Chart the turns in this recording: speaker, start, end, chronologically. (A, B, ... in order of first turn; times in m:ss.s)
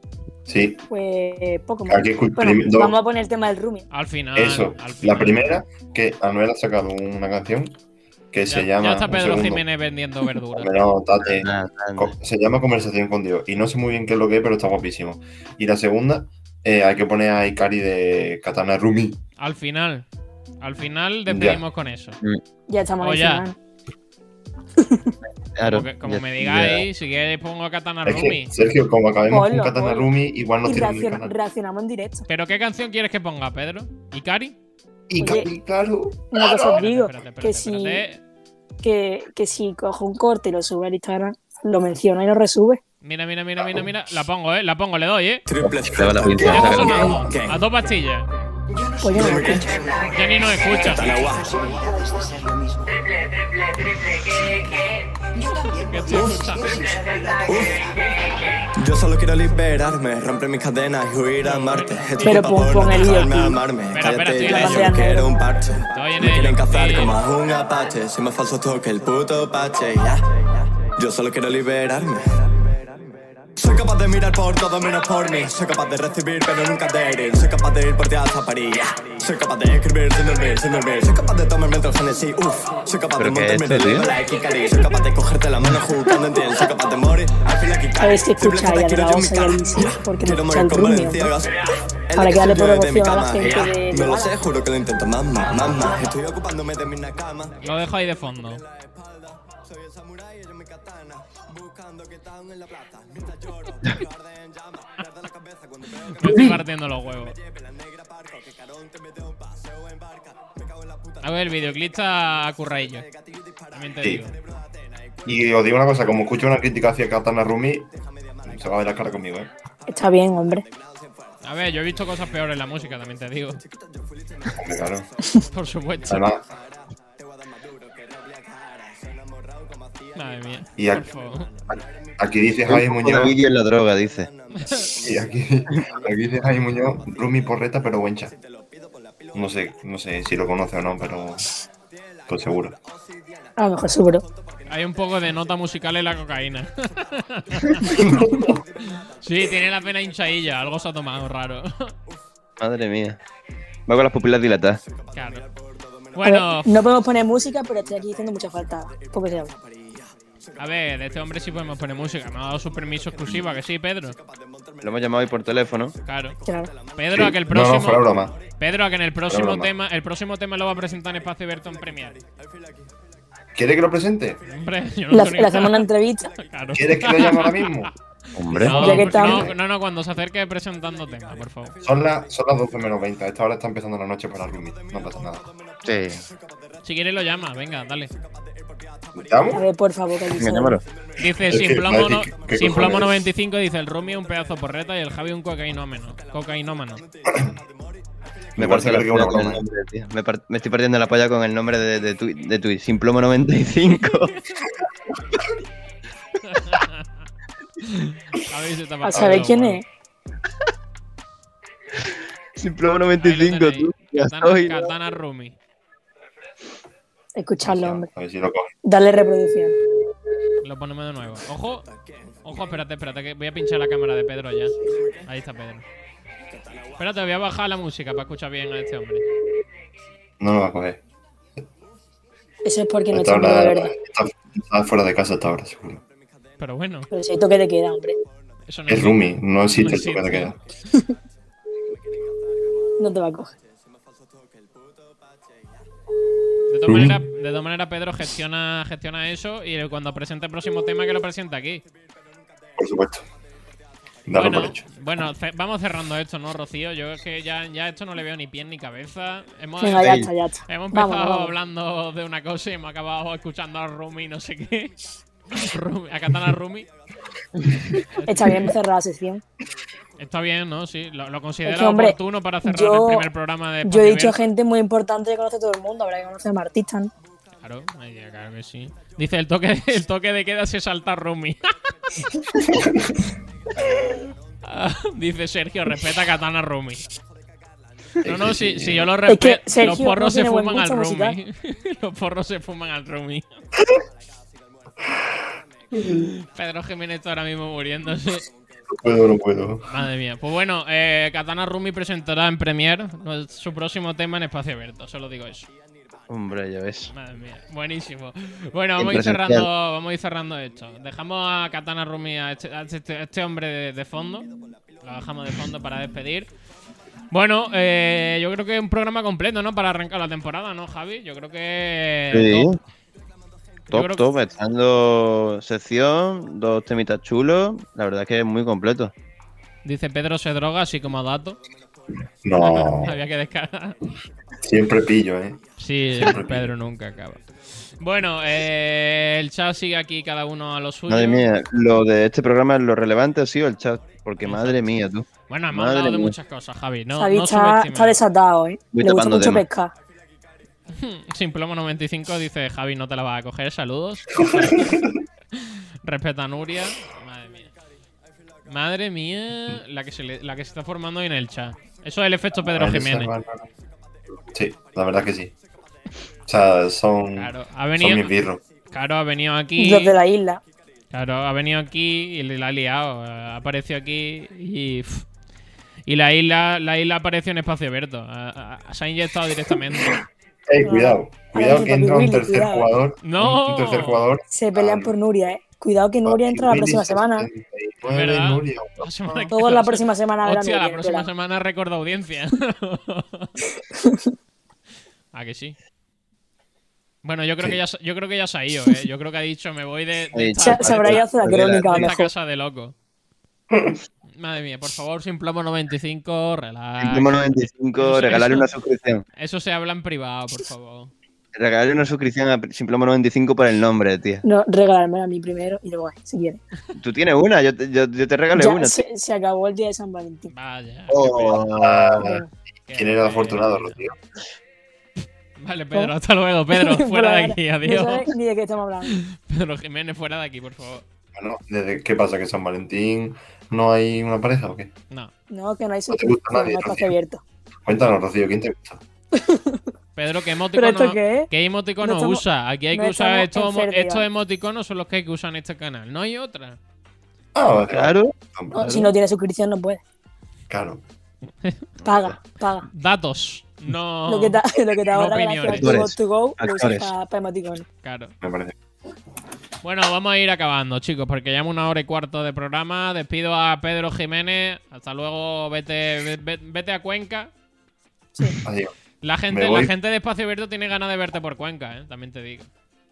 0:00.4-0:00.8 A
0:00.9-0:03.9 B
0:01.8-0:02.9 A
0:03.9-0:05.6 C
0:04.3-0:07.7 A
0:08.3-0:09.6 A
0:08.5-0:10.9 C
0:10.6-0:19.2 A
0:11.2-0:12.1 D
0:19.4-0:20.0 C
0:20.6-0:22.2 C
0:21.3-0:21.6 A
0:22.7-0:23.6 B
0:23.0-0:23.5 C
0:24.8-0:25.1 B
0:25.2-0:26.8 D
0:25.6-0:28.5 C
0:28.0-0:31.3 A
0:29.3-0:30.1 B
0:30.6-0:32.2 B
0:32.3-0:34.6 C
0:35.1-0:36.8 A
0:35.2-0:35.5 B
0:36.3-0:38.0 B
0:36.6-0:38.2 C
0:38.8-0:42.8 B
0:43.0-0:45.4 C
0:45.5-0:47.7 E
0:45.9-0:47.2 D
0:45.9-0:46.2 A
0:46.4-0:48.3 C
0:49.0-0:49.7 B
0:49.1-0:52.5 E
0:50.1-0:51.2 C
0:55.9-0:56.9 C
0:56.0-0:58.0 E
0:58.8-1:12.5 E
1:01.4-1:03.3 C
1:02.2-1:03.6 B
1:03.9-1:05.0 C
1:04.4-1:05.3 B
1:05.9-1:07.1 C
1:13.6-1:56.6 E
1:23.2-1:24.1 D
1:28.0-1:31.3 B
1:32.1-1:34.3 B
1:37.6-1:38.6 C
1:46.1-1:47.3 C
1:51.2-1:53.0 C
1:53.7-1:54.3 C
1:55.2-1:57.9 A
1:57.9-2:21.3 E
1:58.4-1:59.5 A
1:59.9-2:00.6 B
2:01.4-2:03.6 C
2:04.5-2:05.1 A
2:05.5-2:06.2 C
2:06.1-2:06.4 A
2:10.1-2:11.5 C
2:10.8-2:11.1 A
2:11.7-2:13.4 A
2:12.7-2:14.3 D
2:14.6-2:14.8 C
2:15.0-2:18.3 A
2:19.3-2:21.5 A
2:21.9-2:31.2 E
2:22.3-2:22.7 A
2:23.6-2:24.2 B
2:24.7-2:27.9 C
2:28.0-2:28.5 A
2:29.2-2:31.9 C
2:32.6-2:33.2 D
2:33.9-2:34.8 D
2:34.0-2:49.4 E
2:35.1-2:35.4 C
2:36.1-2:36.8 C
2:36.2-2:39.5 B
2:40.6-2:44.2 C
2:44.8-2:45.9 D
2:46.0-2:46.4 C
2:47.0-2:48.0 C
2:47.1-2:48.3 A
2:48.6-2:52.2 C
2:49.3-2:49.7 A
2:50.6-2:53.0 E
2:53.6-2:54.4 A
2:54.3-2:57.6 E
2:54.5-2:55.9 C
2:55.1-2:56.3 B
2:56.5-2:57.9 C
2:56.7-2:57.9 A
2:58.4-2:59.2 D
2:58.5-3:01.7 C
2:58.6-2:59.5 A
2:58.7-2:59.5 B
2:59.0-3:03.2 E
3:01.8-3:05.5 A
3:04.4-3:19.4 E
3:05.8-3:06.2 D
3:06.8-3:08.1 C
3:09.1-3:09.6 A
3:09.5-3:10.8 B
3:10.3-3:10.8 D
3:11.2-3:17.0 C
3:11.4-3:13.1 A
3:18.6-3:19.6 A
3:18.6-3:24.3 D
3:23.9-3:24.3 E
3:26.5-3:27.0 C
3:27.8-3:29.8 C
3:29.0-3:29.8 B
3:32.6-3:34.9 D
3:33.2-3:35.6 C
3:37.4-3:38.1 B
3:37.6-3:38.7 A
3:38.8-3:39.8 B
3:40.6-3:41.8 C
3:41.9-3:43.2 E
3:42.4-3:45.8 C
3:44.8-3:45.5 E
3:46.5-3:47.6 E
3:47.0-3:49.2 C
3:50.4-3:51.0 A
3:52.6-3:53.9 B
3:53.1-3:56.0 A
3:56.1-3:56.7 E
3:56.6-3:57.1 C
3:57.1-3:58.2 B
3:58.7-3:59.2 C
3:58.9-4:00.6 A
3:59.7-4:00.5 C
4:02.6-4:05.8 E
4:03.0-4:03.5 B
4:06.7-4:11.8 C
4:06.9-4:07.2 A
4:11.7-4:13.2 E
4:12.8-4:13.2 A
4:14.3-4:14.5 E
4:14.3-4:14.8 A
4:14.3-4:24.9 C
4:19.8-4:21.5 B
4:20.0-4:20.3 D
4:25.5-4:26.9 C
4:27.6-4:28.0 E
4:28.1-4:28.6 C
4:28.3-4:29.4 B
4:30.2-4:34.4 C
4:31.6-4:33.3 B
4:33.8-4:37.1 B
4:37.6-4:42.2 C
4:43.8-4:44.4 E
4:44.6-4:47.0 C
4:47.2-4:48.5 E
4:48.2-4:49.1 A
4:48.2-4:53.4 C
4:49.3-4:51.4 B
4:53.9-4:54.9 E
4:55.6-4:55.9 E
4:56.5-4:58.4 C
4:58.5-4:59.1 E
4:59.0-4:59.9 A
4:59.9-5:05.7 C
5:05.8-5:06.3 E
5:06.3-5:07.1 D
5:07.1-5:14.4 C
5:09.0-5:09.7 D
5:14.5-5:16.2 E
5:15.0-5:16.5 C
5:17.3-5:22.8 C
5:22.3-5:22.8 D
5:23.9-5:24.3 C
5:23.9-5:29.1 D
5:24.4-5:24.7 E
5:29.8-5:31.6 C
5:31.7-5:32.0 E
5:32.4-5:33.2 A
5:32.6-5:34.0 C
5:32.9-5:34.1 E
5:34.6-5:35.6 A
5:35.8-5:37.4 C
5:36.0-5:38.6 E
5:36.1-5:36.7 A
5:38.0-5:41.5 C
5:41.1-5:46.4 D
5:44.4-5:44.8 C
5:45.5-5:48.2 C
5:47.2-5:49.9 B
5:48.9-5:49.6 D
5:50.2-5:50.6 E
5:50.9-5:55.1 C
5:54.4-5:55.1 A
5:56.0-5:57.7 C
5:58.7-6:03.3 C
6:01.9-6:02.5 E
6:02.7-6:03.6 A
6:03.6-6:05.5 E
6:04.5-6:05.5 A
6:06.5-6:08.6 A
6:07.3-6:08.3 C
6:08.9-6:10.2 C
6:09.8-6:10.6 B
6:11.1-6:15.2 C
6:16.1-6:20.2 C
6:20.7-6:25.1 A
6:20.8-6:22.9 B
6:23.2-6:24.3 C
6:24.5-6:27.5 B
6:26.2-6:29.5 A
6:28.0-6:33.5 C
6:29.5-6:31.3 B
6:33.9-6:34.3 B
6:35.3-6:35.8 C
6:37.2-6:42.9 C
6:40.3-6:42.1 D
6:40.6-6:42.3 B
6:43.7-6:44.0 A
6:44.3-6:48.7 C
6:47.0-6:49.2 D
6:49.4-6:51.1 C
6:51.5-6:54.4 D
6:54.4-6:56.6 B
6:57.0-6:59.0 D
6:58.6-7:00.5 B
7:00.5-7:01.7 C
7:01.1-7:02.2 D
7:01.7-7:04.1 A
7:02.2-7:02.5 B
7:02.9-7:04.0 C
7:05.6-7:08.3 C
7:06.7-7:09.1 B
7:09.1-7:11.0 C
7:11.3-7:14.9 A
7:15.5-7:17.4 B
7:16.1-7:17.1 A
7:17.8-7:19.0 A
7:19.3-7:19.9 B
7:20.2-7:26.8 C
7:20.7-7:21.5 B
7:22.0-7:24.2 B
7:27.5-7:29.1 A
7:27.9-7:29.1 D
7:28.7-7:30.0 B
7:30.7-7:31.0 A
7:32.0-7:32.3 D
7:32.0-7:32.9 B
7:32.9-7:36.0 C
7:34.3-7:37.8 B
7:35.6-7:37.1 D
7:38.0-7:38.3 C
7:38.4-7:38.7 A
7:39.8-7:47.5 C
7:48.6-7:48.9 A
7:49.2-7:52.7 C
7:49.5-7:49.9 A